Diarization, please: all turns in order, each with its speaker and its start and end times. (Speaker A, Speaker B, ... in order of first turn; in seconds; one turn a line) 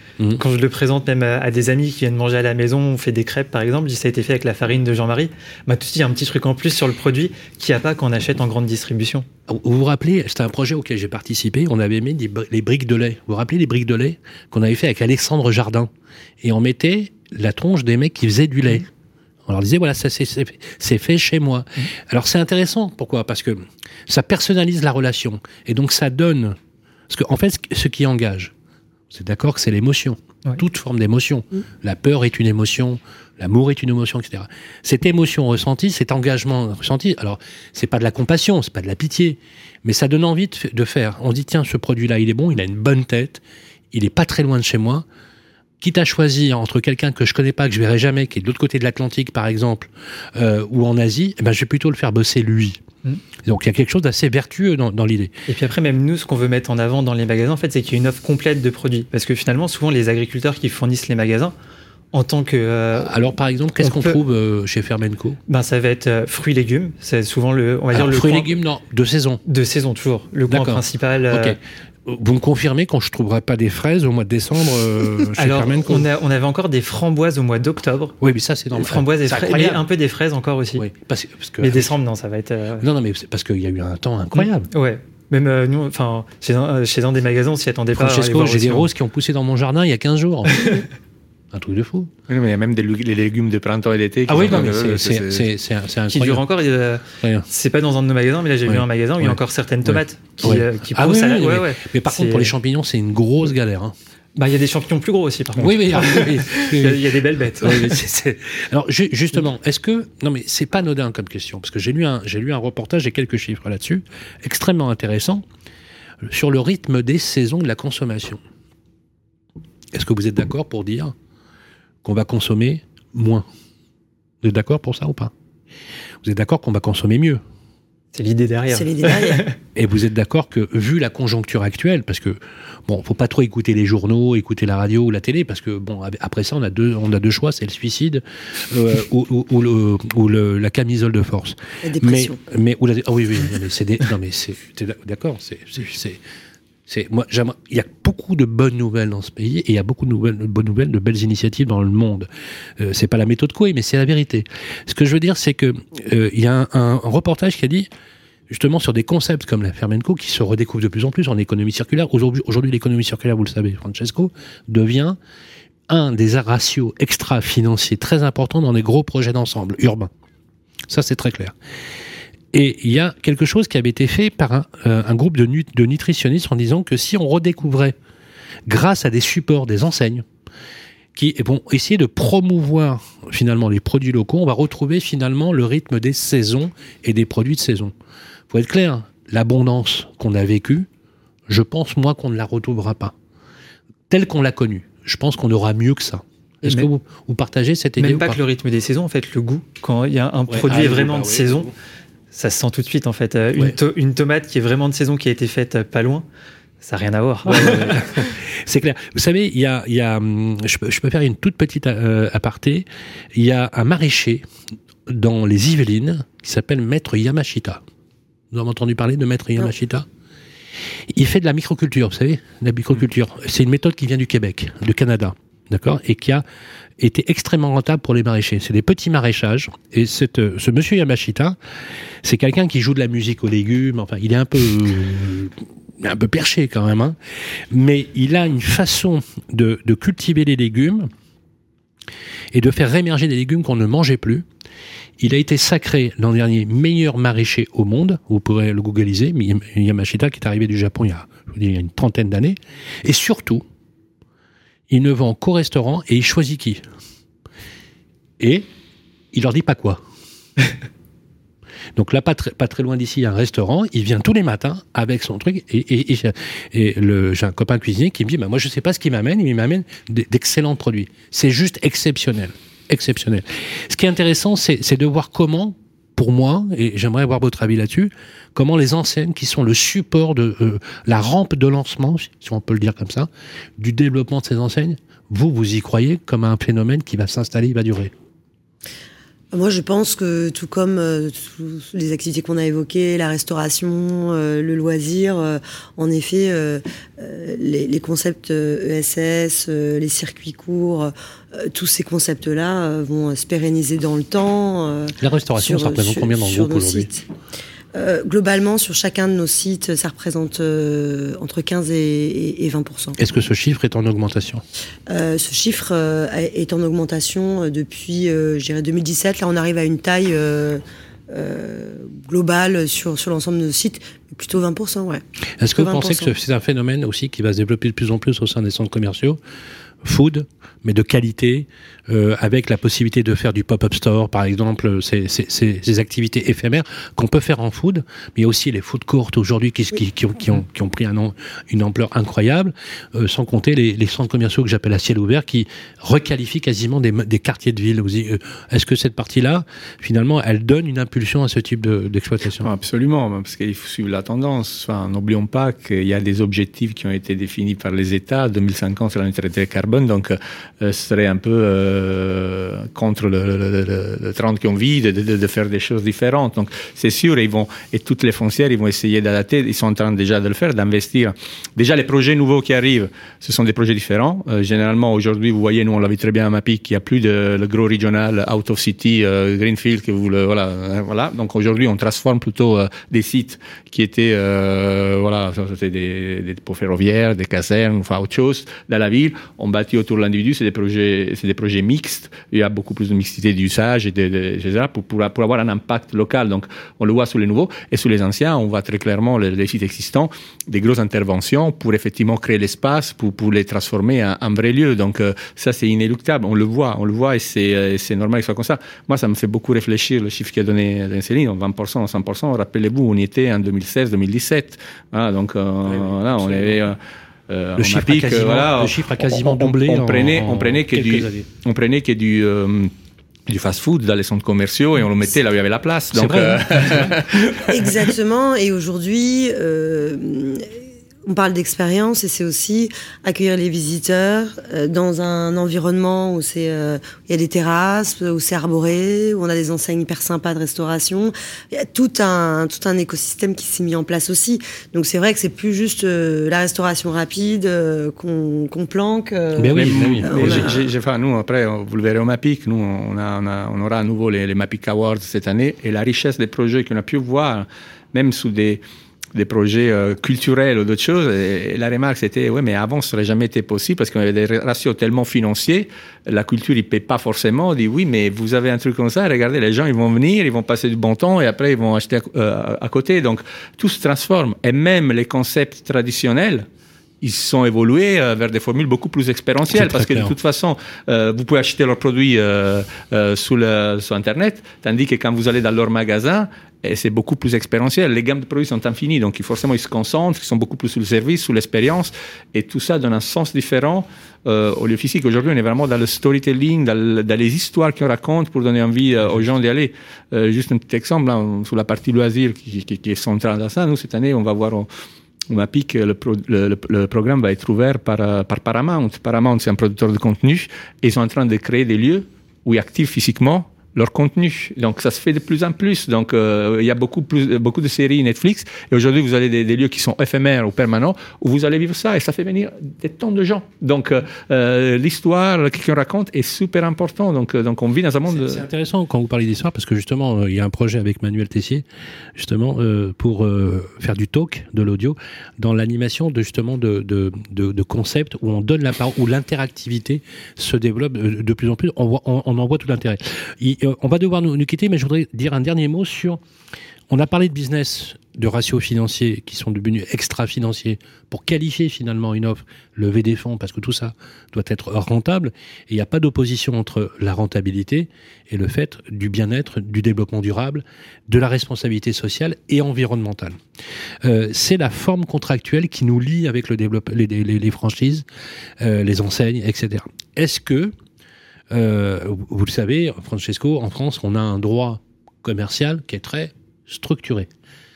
Speaker A: 0.4-9.3
Speaker B: 9.5-15.9
Speaker B: 16.4-18.9
Speaker B: 19.5-26.6
Speaker B: 27.1-28.5
Speaker B: 29.1-43.4
Speaker B: 43.9-45.0
Speaker B: 45.8-52.8
Speaker B: 53.5-55.3
Speaker A: 55.5-61.5
Speaker A: 62.1-63.1
Speaker B: 63.0-65.4
Speaker A: 63.8-64.2
Speaker A: 65.5-68.5
Speaker B: 67.9-69.4
Speaker A: 69.5-71.6
Speaker B: 70.5-76.1
Speaker A: 75.4-78.2
Speaker B: 78.2-79.8
Speaker A: 78.7-80.8
Speaker B: 80.8-81.9
Speaker A: 81.6-82.9
Speaker B: 82.8-84.7
Speaker A: 84.3-88.9
Speaker B: 88.0-90.8
Speaker A: 90.6-90.8
Speaker B: 91.5-92.1
Speaker C: 92.3-95.5
Speaker B: 94.3-96.5
Speaker A: 96.1-102.5
Speaker B: 97.2-97.5
Speaker B: 98.7-103.9
Speaker A: 104.4-108.0
Speaker B: 105.6-115.4
Speaker B: 116.2-118.4
Speaker B: 119.9-121.1
Speaker B: 122.0-123.5
Speaker B: 124.4-125.3
Speaker B: 126.2-127.4
Speaker A: 128.1-129.6
Speaker D: 128.7-129.5
Speaker B: 129.8-146.2
Speaker D: 141.8-142.4
Speaker B: 146.9-157.9
Speaker B: 158.5-165.2
Speaker B: 165.9-170.1
Speaker B: 170.9-171.6
Speaker B: 172.5-178.0
Speaker B: 178.7-180.2
Speaker B: 181.2-187.9
Speaker B: 188.5-190.9
Speaker B: 191.5-193.1
Speaker B: 194.1-198.4
Speaker A: 198.0-201.7
Speaker B: 200.5-201.7
Speaker A: 202.3-206.3
Speaker A: 206.8-208.1
Speaker B: 207.5-214.4
Speaker B: 215.1-217.8
Speaker B: 218.5-220.1
Speaker B: 221.1-226.4
Speaker B: 227.0-231.6
Speaker B: 232.2-237.2
Speaker B: 237.7-241.1
Speaker B: 242.5-244.4
Speaker B: 245.2-253.6
Speaker B: 254.9-256.8
Speaker B: 258.4-258.7
Speaker B: 259.3-260.0
Speaker B: 262.0-288.1
Speaker D: 289.5-307.2
Speaker B: 305.2-307.1
Speaker D: 307.9-313.2
Speaker B: 313.2-314.6
Speaker D: 315.1-325.2
Speaker B: 325.6-329.4
Speaker D: 325.8-326.3
Speaker B: 330.0-352.7
Speaker C: 352.6-417.0
Speaker B: 415.9-416.8
Speaker C: 417.5-422.9
Speaker B: 417.8-421.5
Speaker C: 423.5-427.6
Speaker B: 426.1-427.1
Speaker D: 427.7-430.7
Speaker D: 431.3-450.9
Speaker B: 449.6-450.7
Speaker C: 449.7-458.8
Speaker C: 459.3-476.7
Speaker C: 477.2-504.9
Speaker B: 479.7-480.4
Speaker C: 505.5-528.6
Speaker B: 528.3-531.9
Speaker B: 532.4-546.4
Speaker B: 547.1-563.6
Speaker B: 564.2-568.2
Speaker B: 568.8-570.9
Speaker B: 571.7-577.5